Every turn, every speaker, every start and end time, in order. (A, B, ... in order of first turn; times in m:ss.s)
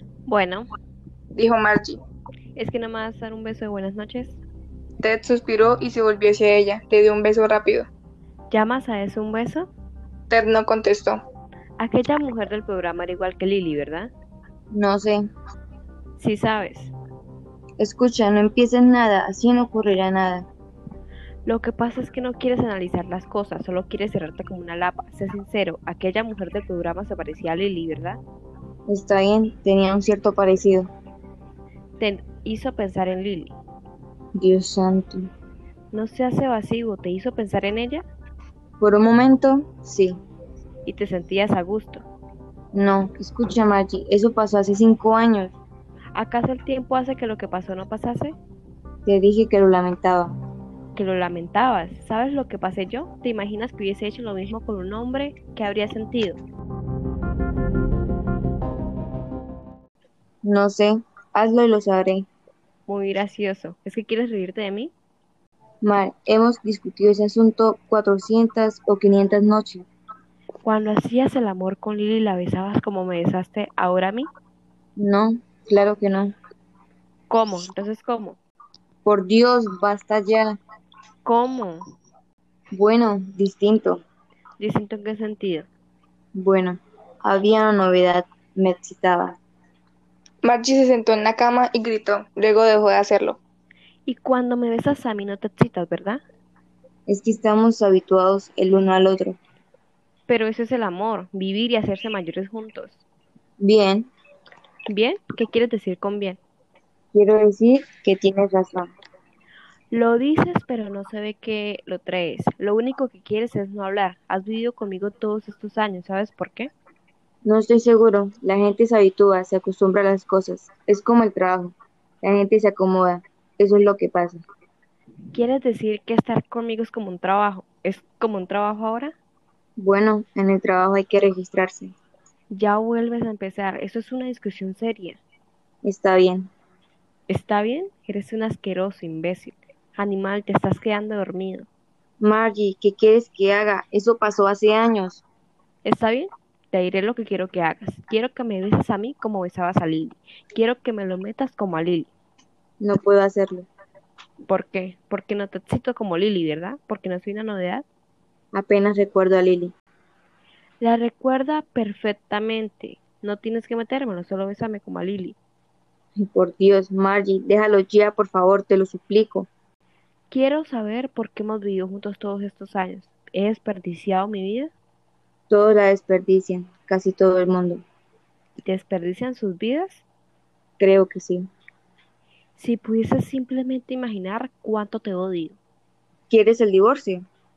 0:00.3-0:00.7 A
0:01.4-0:02.0 B
0:02.6-0:04.4 A
0:05.0-0:07.9 B
0:08.5-0:09.7 A
0:10.3-0:11.2 B
0:11.8-0:14.1 A
0:14.7-0:15.3 C
0:16.2-0:16.9 A
0:17.8-0:20.5 C
0:21.4-0:28.2 A
0:28.9-0:30.9 C
0:32.0-0:33.6 A
0:34.3-0:35.3 C
0:35.9-0:38.0 A
0:38.8-0:40.2 C
0:40.9-0:42.0 A
0:42.7-0:45.6 C
0:46.1-0:48.4 A
0:49.1-0:50.4 C
0:51.0-0:56.4 A
1:00.4-1:02.3 C
1:02.9-1:04.9 A
1:05.8-1:09.9 C
1:10.6-1:14.3 A
1:15.0-1:16.3 C
1:17.3-1:18.4 A
1:19.0-1:20.6 C
1:21.2-1:21.8 A
1:22.7-1:24.0 C
1:24.6-1:25.7 A
1:26.3-1:29.4 C
1:30.4-1:33.4 B
1:34.1-1:36.2 A
1:37.1-1:39.4 C
1:40.3-1:43.0 A
1:43.6-1:44.1 C
1:44.9-1:46.4 A
1:47.1-1:48.9 C
1:49.9-1:56.7 A
1:57.4-2:04.4 C
2:05.3-2:09.2 A
2:09.8-2:11.9 C
2:12.5-2:15.2 A
2:15.8-2:16.5 C
2:17.3-2:21.7 A
2:22.2-2:25.2 C
2:25.8-2:32.1 A
2:32.8-2:33.7 C
2:34.5-2:37.8 A
2:38.5-2:39.7 C
2:40.8-2:45.4 A
2:46.2-2:49.5 C
2:50.3-2:54.7 A
2:55.5-2:57.8 C
2:58.6-3:00.0 A
3:00.8-3:01.5 C
3:02.6-3:05.6 A
3:06.3-3:07.2 C